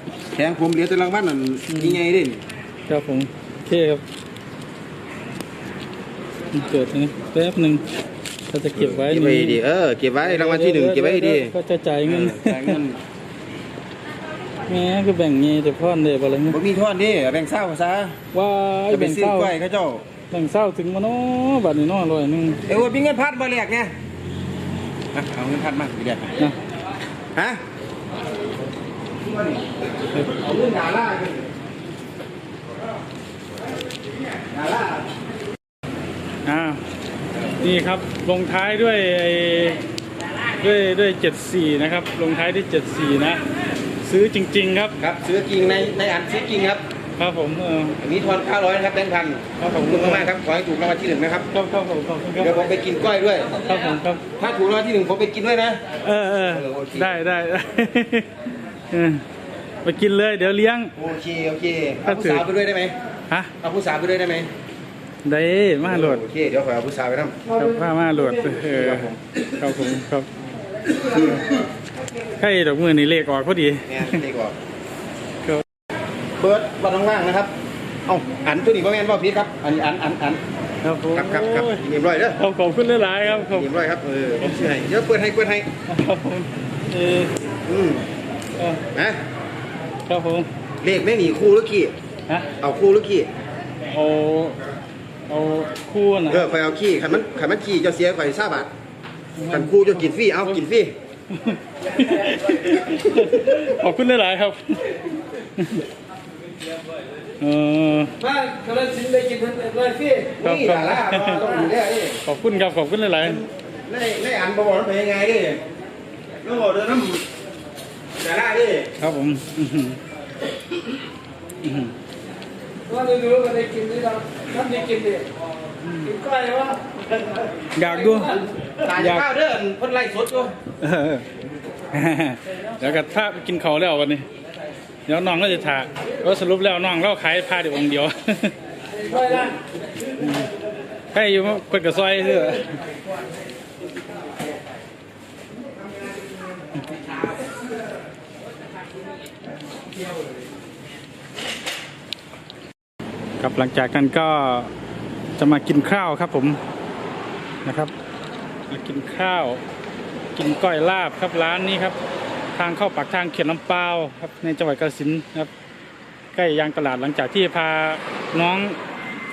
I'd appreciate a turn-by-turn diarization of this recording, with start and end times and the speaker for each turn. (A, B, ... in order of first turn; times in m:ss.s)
0:00.3-0:02.4 A
0:01.7-0:02.0 B
0:02.9-0:04.0 B
0:06.5-0:07.8 B
0:08.5-0:09.6 B
0:08.7-0:11.5 A
0:10.2-0:12.8 B
0:12.0-0:13.0 A
0:14.6-0:16.6 B
0:16.5-0:18.2 A
0:18.3-0:19.5 B
0:18.9-0:20.0 A
0:20.3-0:22.6 B
0:22.7-0:23.9 A
0:25.1-0:26.3 A
0:27.3-0:27.6 A
0:29.2-0:31.5 A
0:34.4-0:35.1 A
0:36.4-0:36.8 B
0:37.6-0:39.8 B
0:40.6-0:43.4 B
0:44.0-0:45.0 B
0:45.0-0:46.8 A
0:47.2-0:48.0 B
0:48.0-0:51.5 A
0:49.6-0:50.3 B
0:51.5-0:52.6 B
0:52.4-0:53.6 A
0:53.6-0:54.2 B
0:54.4-0:55.8 A
0:56.0-0:59.2 B
0:56.5-0:57.2 A
0:59.8-1:00.9 B
1:01.0-1:02.9 A
1:02.0-1:02.4 B
1:03.6-1:04.5 A
1:05.2-1:06.2 B
1:05.8-1:07.5 A
1:07.6-1:10.3 B
1:08.1-1:09.2 A
1:10.9-1:11.6 A
1:12.4-1:14.2 B
1:13.9-1:14.6 A
1:16.4-1:17.5 A
1:18.0-1:20.4 A
1:20.8-1:21.8 B
1:21.1-1:22.4 A
1:22.4-1:23.7 B
1:23.4-1:25.7 A
1:25.9-1:27.3 B
1:27.6-1:28.1 A
1:28.9-1:29.2 A
1:30.1-1:30.5 B
1:30.8-1:31.9 A
1:32.6-1:33.3 A
1:33.9-1:34.6 B
1:35.3-1:36.4 B
1:36.3-1:38.7 A
1:39.4-1:40.6 B
1:39.5-1:40.9 A
1:41.3-1:44.9 B
1:45.6-1:45.8 B
1:47.4-1:48.1 B
1:48.2-1:50.3 C
1:50.4-1:52.2 A
1:50.4-1:51.5 B
1:52.2-1:53.4 B
1:53.2-1:55.6 A
1:56.4-1:57.3 A
1:58.2-1:58.9 A
1:59.0-2:00.0 B
2:01.6-2:01.9 B
2:02.9-2:05.3 C
2:05.8-2:06.1 B
2:06.0-2:06.8 C
2:07.7-2:08.4 B
2:08.0-2:08.4 C
2:08.8-2:10.5 A
2:08.9-2:09.2 B
2:10.8-2:11.2 B
2:11.9-2:14.2 B
2:15.1-2:18.6 B
2:19.0-2:19.6 C
2:20.2-2:20.5 B
2:21.1-2:22.8 B
2:33.4-2:34.7 B
2:35.4-2:36.6 B
2:37.6-2:37.9 B
2:38.7-2:39.6 B
2:40.3-2:42.0 B
2:42.6-2:45.5 B
2:46.3-2:48.8 B